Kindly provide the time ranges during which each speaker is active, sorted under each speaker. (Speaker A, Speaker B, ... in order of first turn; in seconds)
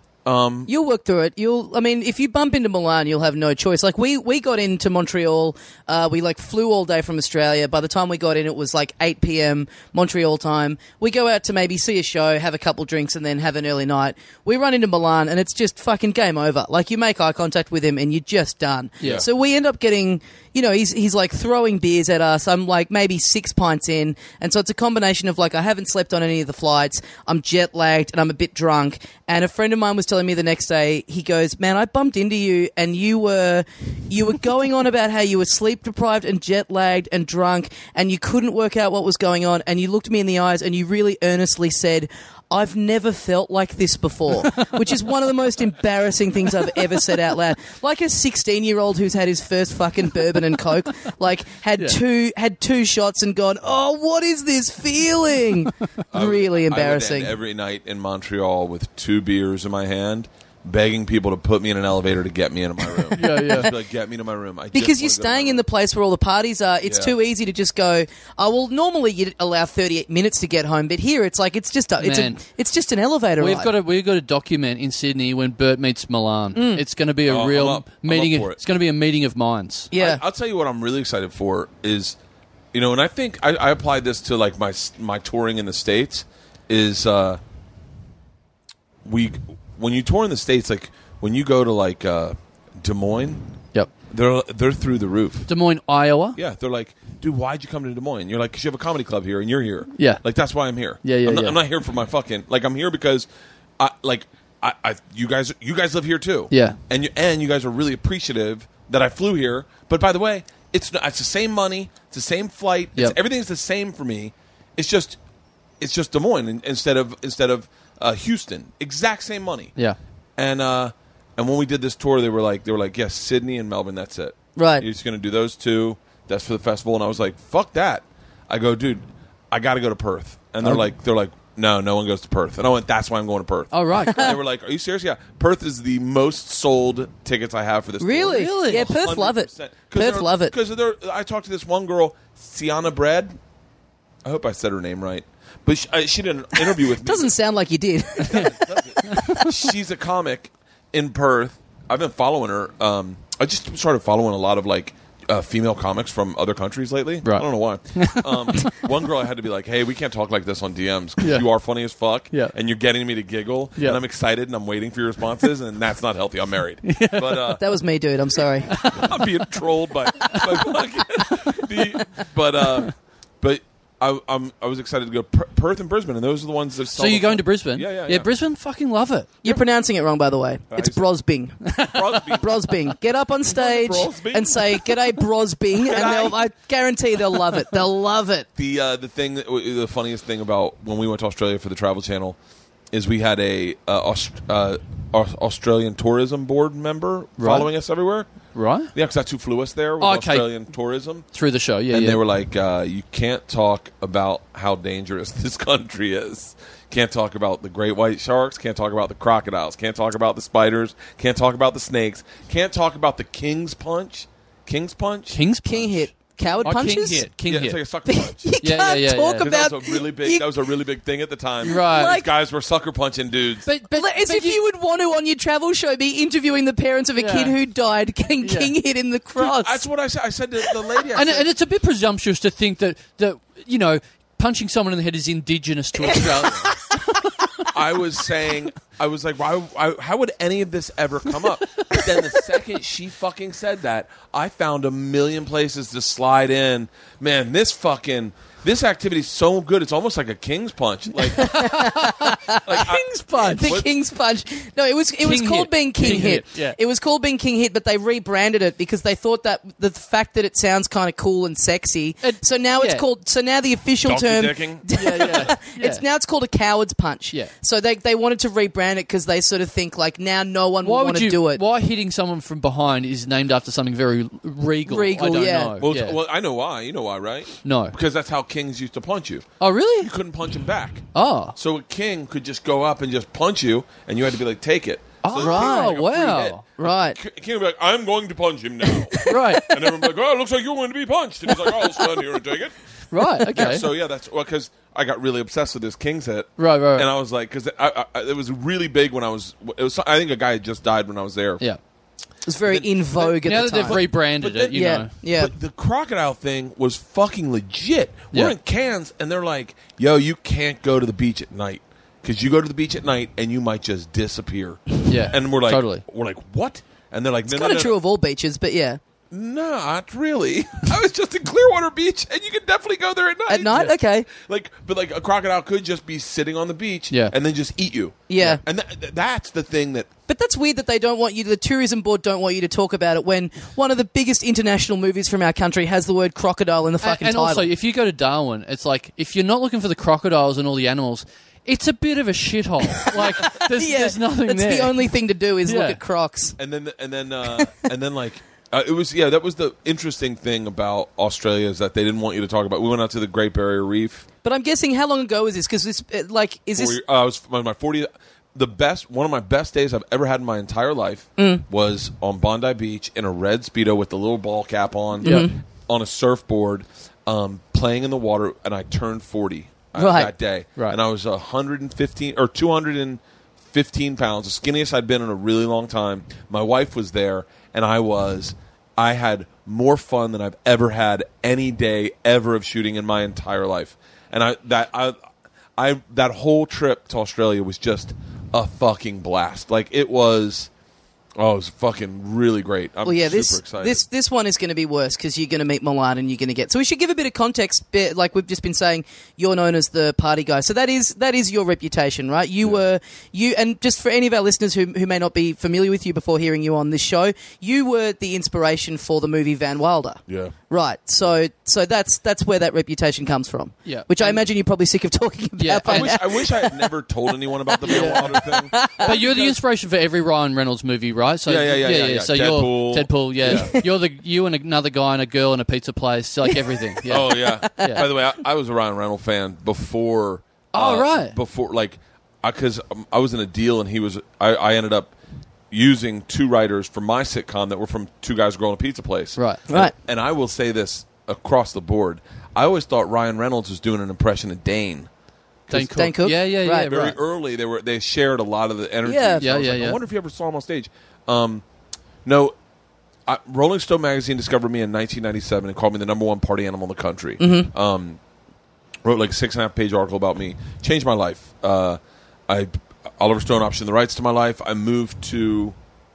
Speaker A: 0.2-0.7, 19.0-19.2, 56.1-65.6, 66.8-67.1, 77.2-78.6, 79.9-82.2, 82.7-87.4, 89.0-93.4, 94.0-95.5, 96.3-103.3, 103.8-115.2, 115.8-119.7, 120.4-143.3, 144.2-147.3, 148.2-167.6, 168.8-178.3, 180.7-181.0, 181.8-182.7, 183.4-184.9, 185.7-186.5, 188.6-192.4, 192.9-198.3, 198.9-201.2, 201.9-215.4, 217.4-218.5, 219.4-223.7, 229.4-231.5, 237.7-251.8, 252.6-253.9, 264.0-265.5, 275.8-279.5, 280.0-281.1, 281.6-301.6, 302.6-317.9, 319.3-330.1, 346.6-354.2, 356.7-385.2, 385.8-390.7, 391.4-394.1, 410.3-410.5, 415.8-419.6, 421.4-423.8, 427.1-435.1, 435.7-445.1, 446.8-451.6, 452.2-452.5, 453.2-458.2, 459.0-465.8
Speaker B: 0.7-57.3, 64.7-73.7, 76.5-76.8, 79.9-80.2, 124.5-124.8, 138.0-140.5, 146.6-148.6, 167.6-168.9, 179.4-181.7, 182.3-188.4, 215.6-217.2, 218.1-220.5, 221.6-222.3, 223.9-229.8, 251.3-271.6, 274.8-275.8, 285.3-286.0, 286.8-287.2, 302.4-304.0, 304.7-305.5, 317.5-319.0, 323.5-324.3, 328.3-328.6, 330.3-337.7, 343.0-346.6, 354.4-357.0, 361.4-361.6, 365.2-365.6, 369.9-370.3, 393.0-416.9, 417.7-419.2, 423.4-423.8, 426.5-426.8, 427.6-428.1, 445.7-446.9, 449.0-449.4, 457.4-457.7
Speaker C: 19.0-19.2, 44.4-44.8, 46.5-47.1, 63.1-63.7, 72.0-72.4, 73.4-79.9, 95.5-96.4, 99.9-100.2, 101.0-101.6, 106.5-106.8, 133.7-134.4, 138.3-139.0, 149.1-149.5, 157.2-158.8, 161.2-161.4, 166.8-167.6, 168.7-169.2, 170.3-170.6, 176.9-179.3, 181.7-182.3, 197.4-197.7, 198.5-198.9, 200.0-200.5, 201.3-202.2, 215.3-216.0, 216.6-217.8, 218.6-219.5, 221.6-222.2, 223.6-224.6, 227.2-227.6, 228.4-228.7, 231.1-236.7, 251.2-253.8, 255.2-256.8, 262.2-263.0, 265.0-266.0, 270.8-276.2, 277.6-277.9, 279.6-280.1, 281.1-281.6, 285.2-286.6, 289.2-290.1, 291.5-292.1, 293.1-293.9, 296.6-297.1, 303.4-305.1, 308.3-308.6, 315.1-316.0, 337.0-345.1, 345.6-346.0, 365.2-365.5, 413.8-414.4, 415.6-416.2, 417.8-428.1, 430.7-431.4, 439.4-439.6, 445.7-447.2, 449.4-450.0